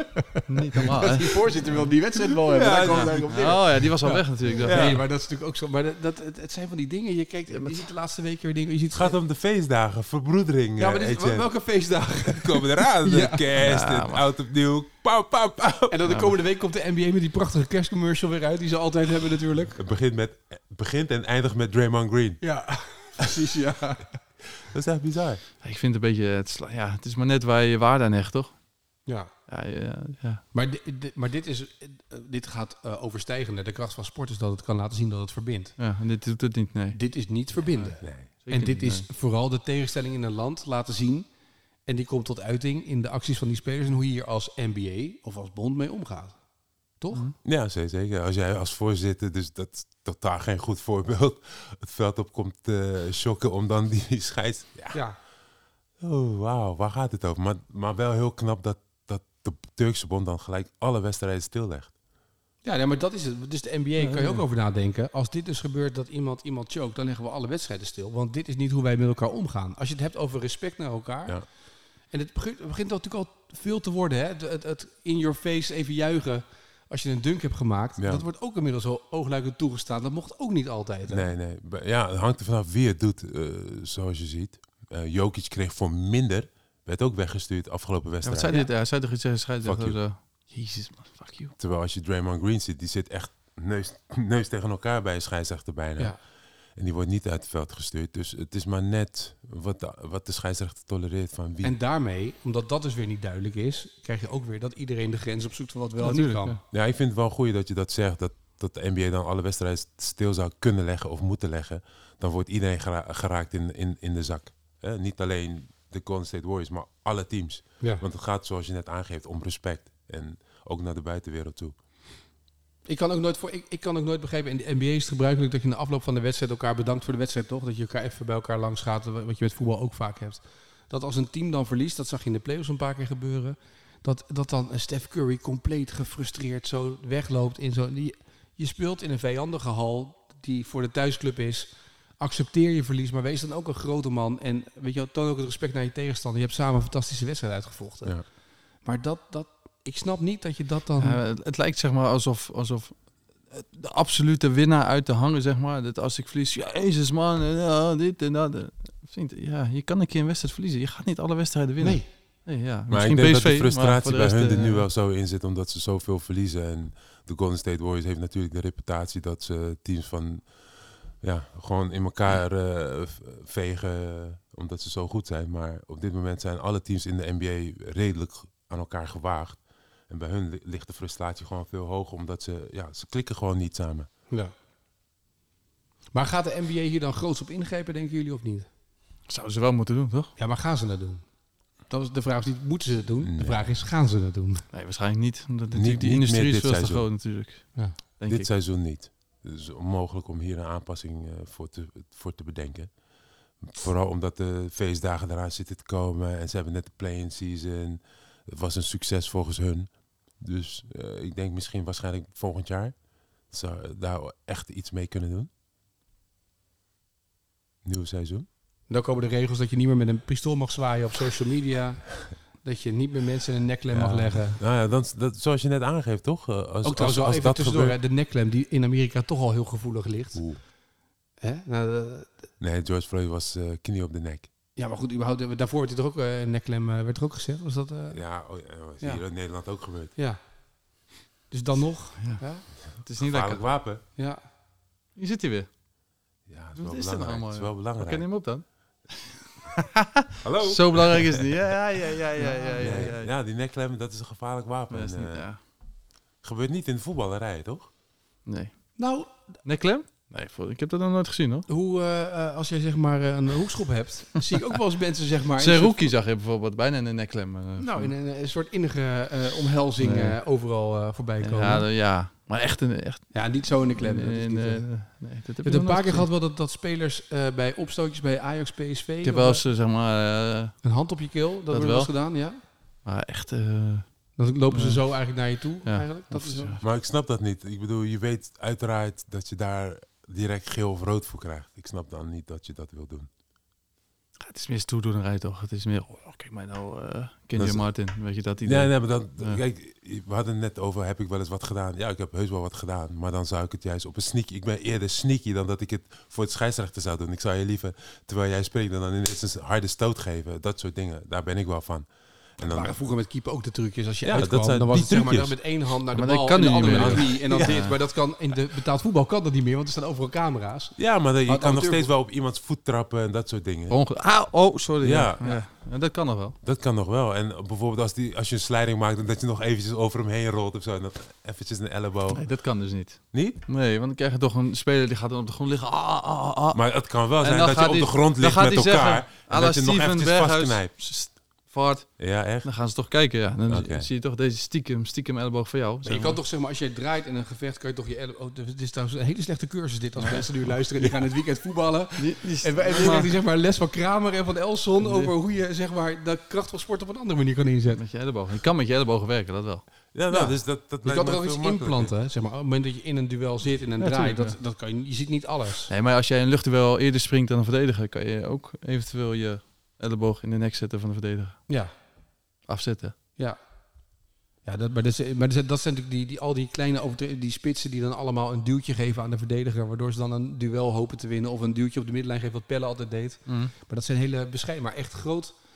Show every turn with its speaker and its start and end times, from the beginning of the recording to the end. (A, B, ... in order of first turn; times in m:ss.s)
0:00.5-0:01.4 A
0:00.9-0:09.2 B
0:02.4-0:03.3 C
0:02.9-0:05.0 A
0:04.6-0:05.0 C
0:08.9-0:11.5 C
0:10.8-0:13.4 B
0:12.3-0:16.0 C
0:13.6-0:14.2 A
0:15.9-0:19.8 B
0:16.1-0:16.3 A
0:19.8-0:22.4 C
0:22.4-0:24.2 B
0:24.6-0:25.4 C
0:25.6-0:28.6 A
0:29.5-0:30.4 A
0:30.5-0:35.8 B
0:35.8-0:37.0 A
0:36.9-0:41.3 B
0:38.0-0:38.3 C
0:38.4-0:39.1 A
0:41.9-0:46.4 B
0:47.0-0:47.3 B
0:47.4-0:55.0 C
0:56.0-1:01.9 C
1:02.6-1:11.4 B
1:04.0-1:04.4 A
1:12.1-1:21.3 B
1:18.0-1:18.2 C
1:21.1-1:28.6 C
1:28.2-1:31.5 A
1:29.6-1:30.0 C
1:31.6-1:36.2 C
1:36.8-1:41.7 C
1:41.6-1:46.6 B
1:46.0-1:46.6 A
1:46.7-2:01.8 C
2:02.9-2:28.3 B
2:28.8-2:31.2 B
2:31.0-2:44.8 A
2:41.8-2:42.1 B
2:42.9-2:50.5 C
2:51.2-3:04.1 C
3:06.1-3:08.7 B
3:09.3-3:10.3 A
3:10.4-3:11.2 B
3:11.9-3:14.7 B
3:13.2-3:13.6 C
3:14.7-3:18.5 A
3:15.7-3:17.1 C
3:18.3-3:22.9 C
3:23.6-3:33.0 C
3:33.5-3:35.5 C
3:37.8-3:38.5 C
3:38.9-3:44.6 B
3:43.9-3:48.0 C
3:46.8-3:50.5 B
3:50.4-3:50.6 C
3:51.4-3:52.3 B
3:52.6-3:54.5 C
3:54.8-3:58.2 B
3:58.1-4:00.1 C
4:01.5-4:02.6 B
4:03.0-4:03.6 A
4:03.2-4:04.0 C
4:05.2-4:05.7 A
4:06.5-4:08.2 C
4:06.8-4:13.3 A
4:10.4-4:11.7 C
4:12.4-4:13.1 B
4:12.8-4:15.5 C
4:14.9-4:15.6 A
4:16.4-4:17.9 C
4:18.5-4:18.7 A
4:19.0-4:19.3 B
4:19.6-4:21.7 A
4:21.7-4:26.1 B
4:25.6-4:28.1 A
4:27.8-4:31.9 B
4:30.0-4:30.4 A
4:31.4-4:36.3 A
4:33.3-4:35.0 B
4:35.6-4:39.6 B
4:39.2-4:40.8 A
4:40.8-4:42.6 B
4:41.7-4:42.2 A
4:43.0-4:45.1 A
4:44.4-4:46.8 B
4:45.9-4:46.8 A
4:46.8-4:53.3 C
4:54.4-4:59.6 A
4:57.6-4:57.9 C
4:58.6-5:12.9 C
5:12.6-5:22.1 B
5:14.2-5:15.6 C
5:16.1-5:18.0 A
5:16.8-5:17.8 C
5:21.0-5:24.0 C
5:23.9-5:26.6 A
5:25.0-5:25.6 C
5:26.6-5:32.4 C
5:32.3-5:36.8 A
5:33.3-5:33.6 C
5:36.7-5:40.9 C
5:37.4-5:46.4 A
5:42.2-5:42.7 C
5:43.7-5:44.1 C
5:46.0-5:58.0 B
5:50.2-5:50.5 A
5:52.2-5:53.3 A
5:55.0-5:55.3 A
5:58.0-5:59.8 A
6:00.1-6:02.1 C
6:00.3-6:05.9 B
6:04.0-6:04.6 A
6:05.9-6:11.6 A
6:12.7-6:13.2 A
6:14.6-6:25.6 B
6:23.5-6:23.7 A